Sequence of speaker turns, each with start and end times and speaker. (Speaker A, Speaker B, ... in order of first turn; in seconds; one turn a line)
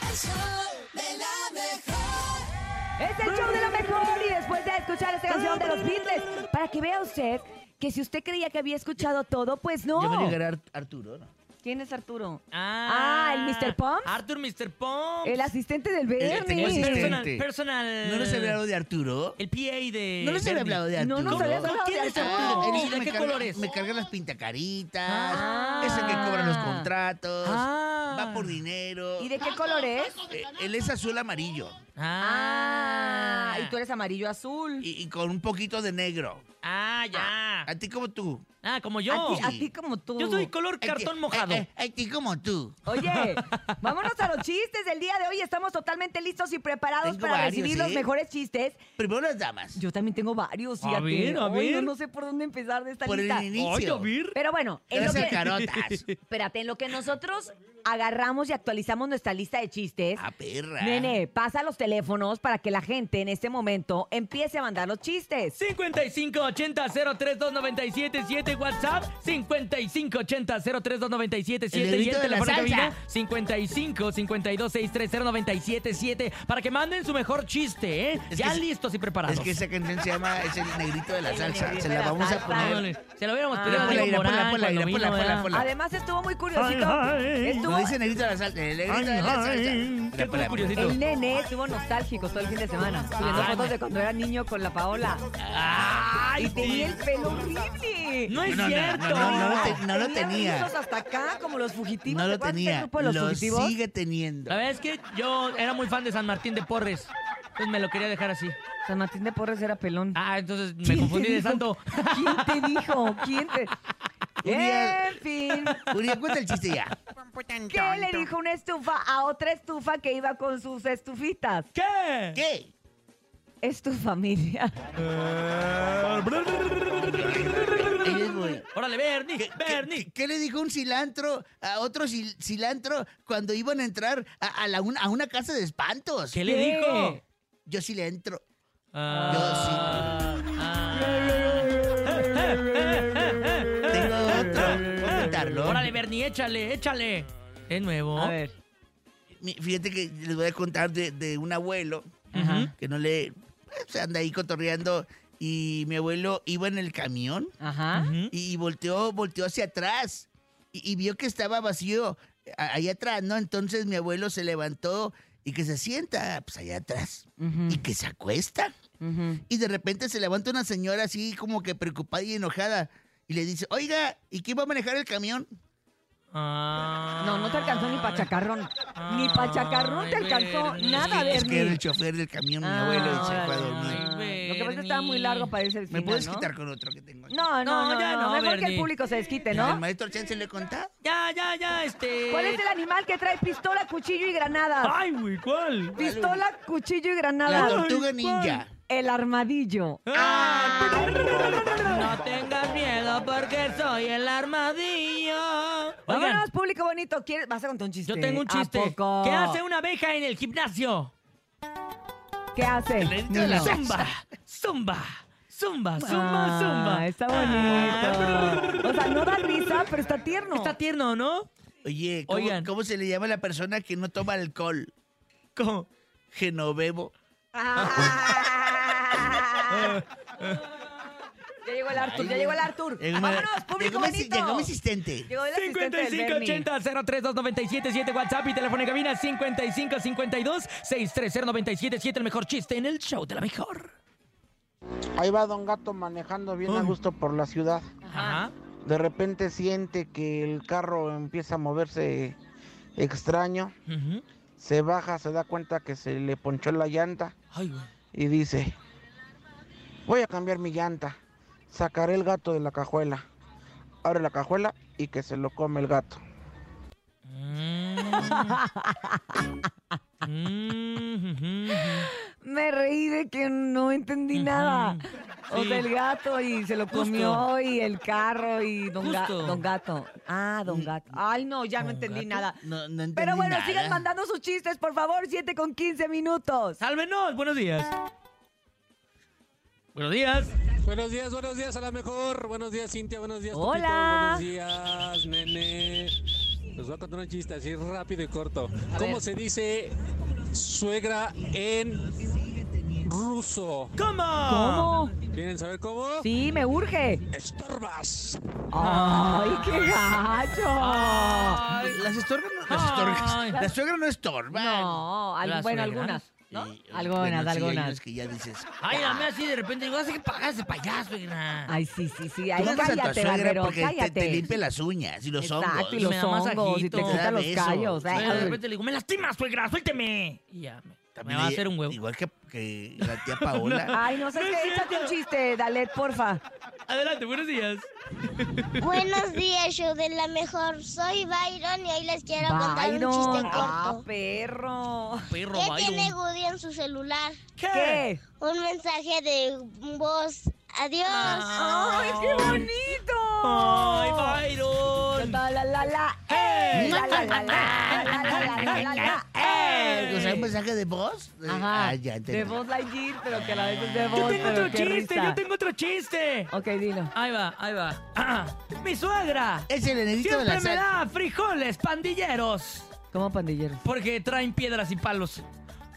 Speaker A: 0.9-1.8
Speaker B: 3.0-10.4
Speaker C: 3.2-3.8
Speaker A: 9.9-11.3
Speaker B: 11.6-14.2
Speaker C: 12.5-15.5
Speaker B: 15.2-17.2
Speaker A: 16.2-17.5
Speaker C: 16.2-18.6
Speaker A: 18.0-19.4
Speaker C: 19.4-23.7
Speaker A: 20.2-29.3
Speaker B: 21.0-22.8
Speaker C: 25.1-26.5
Speaker B: 25.3-26.9
Speaker C: 27.4-28.6
Speaker B: 29.2-30.2
Speaker A: 30.2-31.8
Speaker C: 32.0-33.7
Speaker B: 32.2-34.9
Speaker A: 34.8-36.5
Speaker C: 36.6-37.7
Speaker A: 37.1-38.5
Speaker C: 38.6-39.5
Speaker B: 39.1-40.5
Speaker A: 39.2-39.7
Speaker C: 40.2-41.7
Speaker A: 40.8-42.8
Speaker B: 42.8-48.8
Speaker C: 43.0-43.6
Speaker A: 47.0-48.0
Speaker A: 49.0-49.8
Speaker B: 49.7-53.5
Speaker C: 50.8-51.9
Speaker A: 53.0-54.1
Speaker C: 53.5-54.4
Speaker B: 54.3-55.4
Speaker A: 54.9-56.0
Speaker C: 55.1-56.1
Speaker B: 56.3-60.2
Speaker A: 60.1-61.2
Speaker B: 60.8-65.5
Speaker C: 65.5-79.6
Speaker A: 71.7-73.0
Speaker A: 78.3-78.6
Speaker A: 79.3-82.8
Speaker B: 81.2-82.8
Speaker C: 82.4-85.5
Speaker B: 83.5-84.1
Speaker A: 83.6-85.7
Speaker B: 85.5-88.0
Speaker C: 86.5-87.7
Speaker A: 87.6-90.9
Speaker C: 88.8-90.9
Speaker B: 90.8-95.2
Speaker C: 93.2-93.8
Speaker C: 95.4-97.0
Speaker B: 96.4-98.4
Speaker C: 98.3-99.8
Speaker A: 98.4-100.7
Speaker B: 99.2-103.7
Speaker A: 102.0-104.6
Speaker C: 104.5-108.6
Speaker B: 108.8-110.2
Speaker C: 110.1-113.5
Speaker B: 110.8-113.7
Speaker A: 114.4-115.2
Speaker B: 114.4-115.8
Speaker A: 115.9-116.9
Speaker D: 117.3-118.3
Speaker B: 117.7-121.7
Speaker C: 121.7-122.4
Speaker A: 122.3-122.7
Speaker B: 123.6-124.7
Speaker C: 125.0-130.1
Speaker A: 128.0-128.6
Speaker A: 129.4-136.4
Speaker C: 136.3-137.2
Speaker B: 136.4-137.2
Speaker A: 137.7-138.4
Speaker C: 138.9-148.3
Speaker B: 139.1-139.4
Speaker A: 139.3-140.3
Speaker B: 141.2-142.8
Speaker A: 143.9-145.9
Speaker B: 148.1-148.5
Speaker A: 149.4-157.5
Speaker B: 152.3-152.7
Speaker C: 152.3-152.7
Speaker B: 157.6-158.1
Speaker C: 157.9-158.3
Speaker A: 158.3-168.7
Speaker B: 167.4-167.8
Speaker B: 169.0-169.4
Speaker A: 169.5-175.5
Speaker C: 176.3-178.3
Speaker B: 177.2-181.8
Speaker C: 178.9-181.4
Speaker A: 181.0-184.0
Speaker B: 182.6-186.5
Speaker C: 183.6-185.5
Speaker A: 185.9-187.4
Speaker B: 187.3-189.8
Speaker C: 187.6-188.9
Speaker A: 189.5-190.9
Speaker C: 191.0-192.6
Speaker B: 192.3-194.9
Speaker C: 194.8-196.0
Speaker B: 195.9-197.8
Speaker A: 196.0-196.4
Speaker C: 197.4-198.6
Speaker A: 197.4-198.7
Speaker B: 198.9-201.6
Speaker C: 200.1-206.4
Speaker E: 201.6-202.0
Speaker B: 206.1-209.6
Speaker C: 208.1-211.1
Speaker B: 212.5-213.8
Speaker A: 213.0-214.1
Speaker C: 213.3-219.2
Speaker B: 216.0-220.7
Speaker C: 220.5-221.5
Speaker A: 221.8-224.9
Speaker C: 222.3-222.7
Speaker C: 225.6-225.9
Speaker A: 226.3-227.1
Speaker B: 227.5-230.0
Speaker C: 229.7-230.6
Speaker B: 231.6-234.7
Speaker A: 231.9-235.3
Speaker B: 235.3-236.7
Speaker C: 235.5-243.9
Speaker D: 245.2-247.9
Speaker C: 246.7-246.9
Speaker B: 248.0-248.4
Speaker C: 248.1-248.5
Speaker D: 248.8-252.4
Speaker D: 252.9-253.7
Speaker C: 253.9-254.2
Speaker D: 254.6-257.3
Speaker C: 257.5-257.9
Speaker D: 258.1-258.8
Speaker D: 260.1-261.2
Speaker D: 261.7-263.2
Speaker D: 264.0-266.2
Speaker C: 267.2-268.6
Speaker B: 268.1-269.6
Speaker C: 270.2-272.1
Speaker B: 272.3-282.6
Speaker C: 274.3-275.9
Speaker C: 276.9-277.4
Speaker C: 279.0-279.6
Speaker A: 280.7-281.0
Speaker C: 281.8-282.2
Speaker A: 282.1-284.1
Speaker B: 283.1-286.8
Speaker C: 286.8-287.9
Speaker C: 289.9-290.5
Speaker E: 290.8-296.2
Speaker B: 293.5-294.4
Speaker E: 296.7-302.1
Speaker B: 298.9-299.2
Speaker A: 302.1-303.1
Speaker E: 303.0-303.9
Speaker C: 304.0-304.9
Speaker B: 304.5-305.1
Speaker E: 305.3-306.3
Speaker B: 306.2-307.2
Speaker E: 307.3-308.4
Speaker B: 308.7-311.6
Speaker C: 308.8-310.0
Speaker C: 310.8-312.0
Speaker A: 311.7-315.0
Speaker C: 312.7-313.7
Speaker B: 314.5-318.0
Speaker C: 315.4-316.2
Speaker A: 316.5-319.2
Speaker C: 318.8-321.7
Speaker B: 321.7-324.6
Speaker A: 322.6-326.1
Speaker B: 325.4-328.6
Speaker C: 326.0-327.2
Speaker A: 326.9-328.6
Speaker C: 328.1-332.0
Speaker A: 331.1-333.9
Speaker C: 333.0-335.1
Speaker B: 333.9-336.4
Speaker C: 336.9-339.1
Speaker F: 338.8-344.0
Speaker B: 342.4-345.3
Speaker C: 343.3-343.7
Speaker C: 345.3-346.1
Speaker F: 345.5-347.4
Speaker C: 347.6-348.0
Speaker B: 347.7-348.2
Speaker F: 348.4-351.6
Speaker C: 351.1-355.4
Speaker B: 351.6-354.4
Speaker B: 355.1-360.4
Speaker C: 356.3-360.5
Speaker A: 356.7-359.2
Speaker A: 360.0-362.6
Speaker B: 361.5-365.4
Speaker C: 364.1-366.5
Speaker B: 366.5-367.1
Speaker C: 367.1-369.7
Speaker A: 369.7-370.9
Speaker C: 370.2-372.9
Speaker B: 373.1-373.8
Speaker C: 373.8-375.4